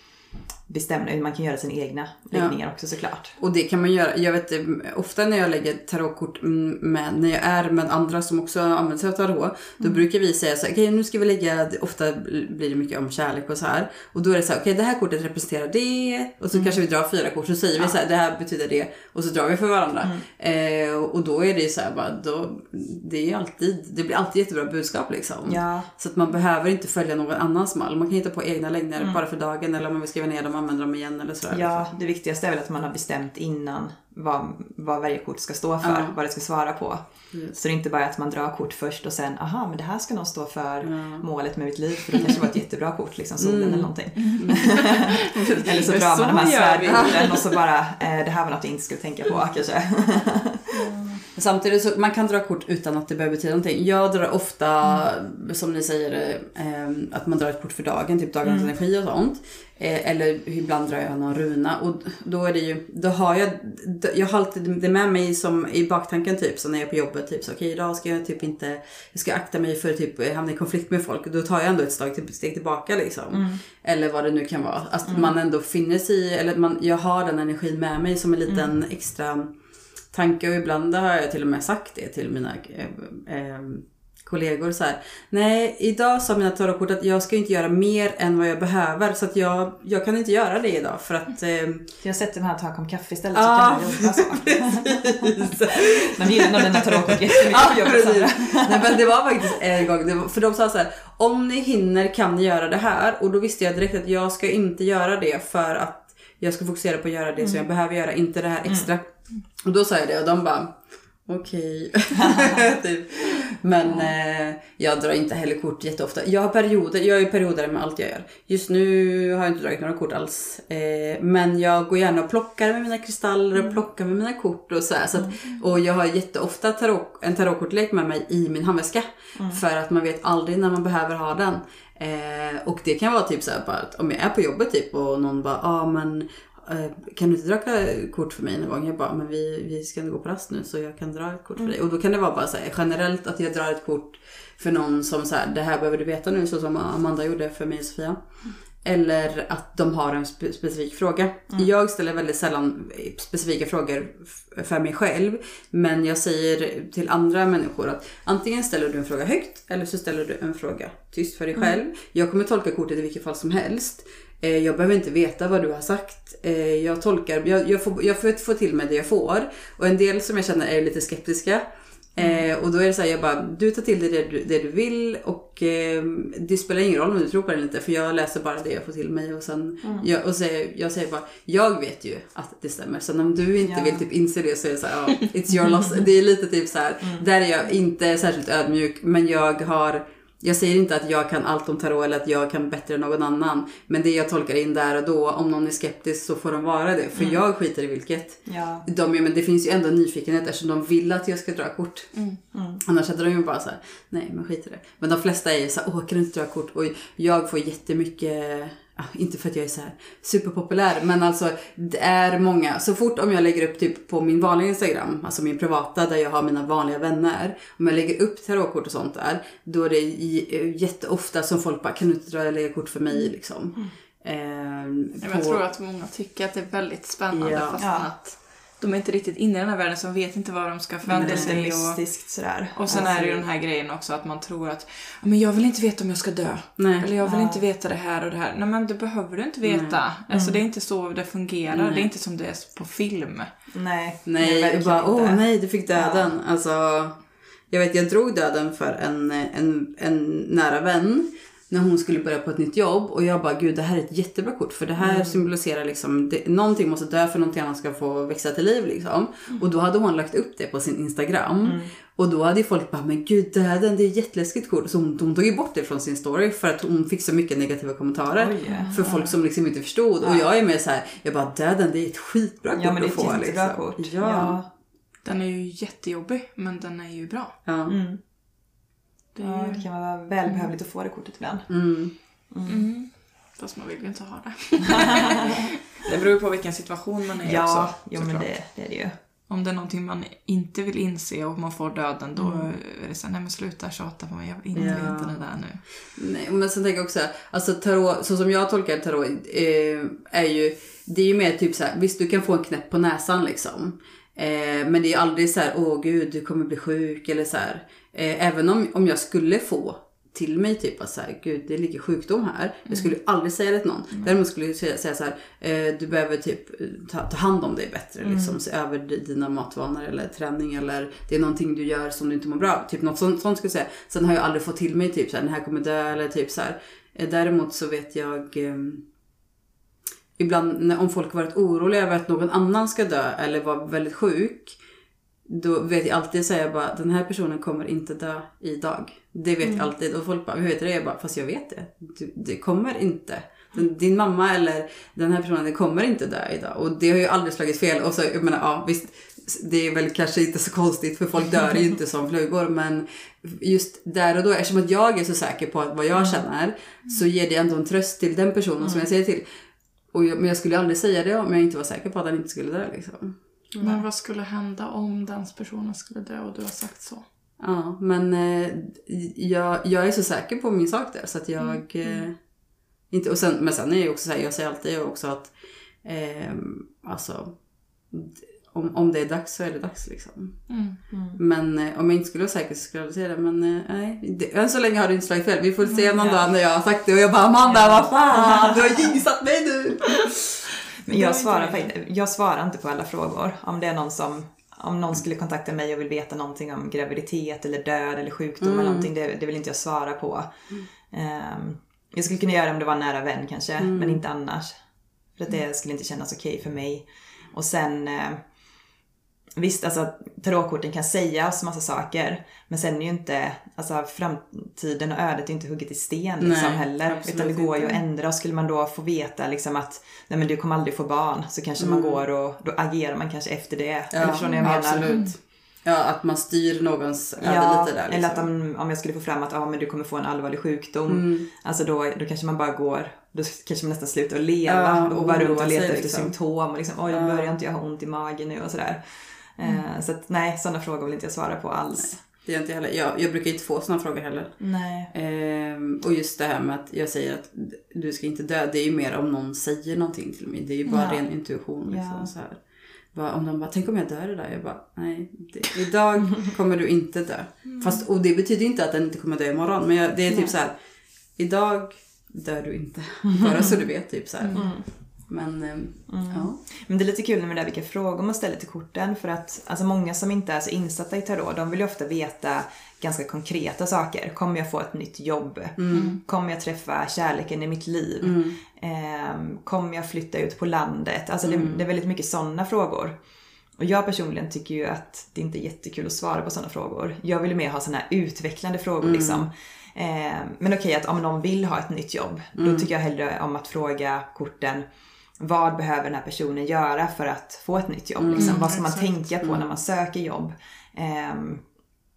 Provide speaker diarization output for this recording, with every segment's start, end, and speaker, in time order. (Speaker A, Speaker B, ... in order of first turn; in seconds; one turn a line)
Speaker A: 0.7-3.4
Speaker B: 3.4-31.9
Speaker A: 25.4-25.9
Speaker A: 31.5-50.9
Speaker B: 35.8-36.1
Speaker B: 37.3-37.6
Speaker B: 40.8-41.2
Speaker B: 42.1-42.4
Speaker B: 43.4-47.4
Speaker C: 44.1-47.4
Speaker C: 50.7-51.2
Speaker B: 51.3-79.5
Speaker A: 58.4-58.7
Speaker A: 73.3-73.6
Speaker A: 75.0-75.3
Speaker B: 80.1-91.9
Speaker A: 92.0-99.6
Speaker B: 93.3-148.2
Speaker A: 112.2-112.6
Speaker A: 113.8-114.1
Speaker A: 129.3-129.6
Speaker B: 148.8-171.6
Speaker A: 161.5-161.8
Speaker B: 172.1-202.2
Speaker A: 172.2-172.5
Speaker A: 179.8-180.1
Speaker A: 183.6-184.1
Speaker A: 187.0-187.2
Speaker A: 197.2-197.4
Speaker A: 198.4-198.8
Speaker C: 202.1-202.4
Speaker A: 202.5-202.8
Speaker B: 202.8-225.6
Speaker C: 225.2-232.0
Speaker B: 227.3-227.9
Speaker A: 227.8-228.1
Speaker A: 231.1-233.4
Speaker B: 231.1-231.5
Speaker C: 232.7-243.5
Speaker B: 232.9-233.4
Speaker B: 236.8-237.1
Speaker A: 237.2-237.6
Speaker B: 239.6-240.0
Speaker A: 240.3-240.6
Speaker B: 241.7-242.0
Speaker A: 243.7-246.3
Speaker B: 244.2-274.6
Speaker A: 255.0-255.4
Speaker A: 261.6-261.9
Speaker A: 268.3-269.4
Speaker C: 268.6-269.0
Speaker A: 270.2-270.5
Speaker A: 272.8-274.7
Speaker C: 275.2-277.6
Speaker B: 277.6-277.9
Speaker A: 277.9-278.2
Speaker C: 279.3-279.9
Speaker A: 279.4-281.7
Speaker B: 281.7-282.1
Speaker A: 282.5-282.9
Speaker C: 282.7-288.5
Speaker A: 287.4-289.1
Speaker C: 289.5-295.8
Speaker A: 292.4-292.7
Speaker B: 294.7-295.4
Speaker A: 294.8-295.1
Speaker B: 296.1-329.0
Speaker A: 318.2-318.6
Speaker B: 330.4-334.8
Speaker B: 335.5-359.4
Speaker A: 339.6-339.9
Speaker A: 356.1-356.4
Speaker A: 358.8-359.1
Speaker B: 360.1-363.4
Speaker A: 363.7-364.0
Speaker C: 363.8-367.2
Speaker B: 367.6-372.4
Speaker C: 371.6-372.2
Speaker B: 373.1-390.6
Speaker C: 380.7-381.0
Speaker A: 381.1-381.4
Speaker A: 386.2-386.5
Speaker A: 387.7-388.8
Speaker A: 391.1-400.5
Speaker C: 391.1-391.9
Speaker B: 398.6-399.1
Speaker A: 401.1-404.7
Speaker B: 403.8-404.2
Speaker A: 405.3-408.4
Speaker A: 409.6-425.3
Speaker B: 416.4-417.9
Speaker B: 421.8-422.2
Speaker B: 424.1-428.5
Speaker C: 424.4-425.3
Speaker A: 427.4-439.0
Speaker B: 431.1-431.5
Speaker B: 434.7-436.3
Speaker B: 437.1-437.6
Speaker A: 439.6-442.1
Speaker B: 441.9-452.6
Speaker A: 444.6-445.1
Speaker A: 450.9-451.3
Speaker A: 451.8-452.3
Speaker B: 453.1-460.7
Speaker C: 457.6-458.0
Speaker A: 460.3-460.6
Speaker B: 461.4-466.6
Speaker A: 463.4-463.8
Speaker C: 464.4-464.7
Speaker A: 464.5-464.9
Speaker A: 466.1-483.1
Speaker B: 475.8-476.2
Speaker C: 475.9-476.2
Speaker B: 478.2-478.6
Speaker B: 481.4-481.8
Speaker A: 483.8-494.8
Speaker B: 489.0-489.4
Speaker B: 492.6-492.9
Speaker A: 495.4-501.6
Speaker B: 498.2-498.6
Speaker C: 498.3-499.2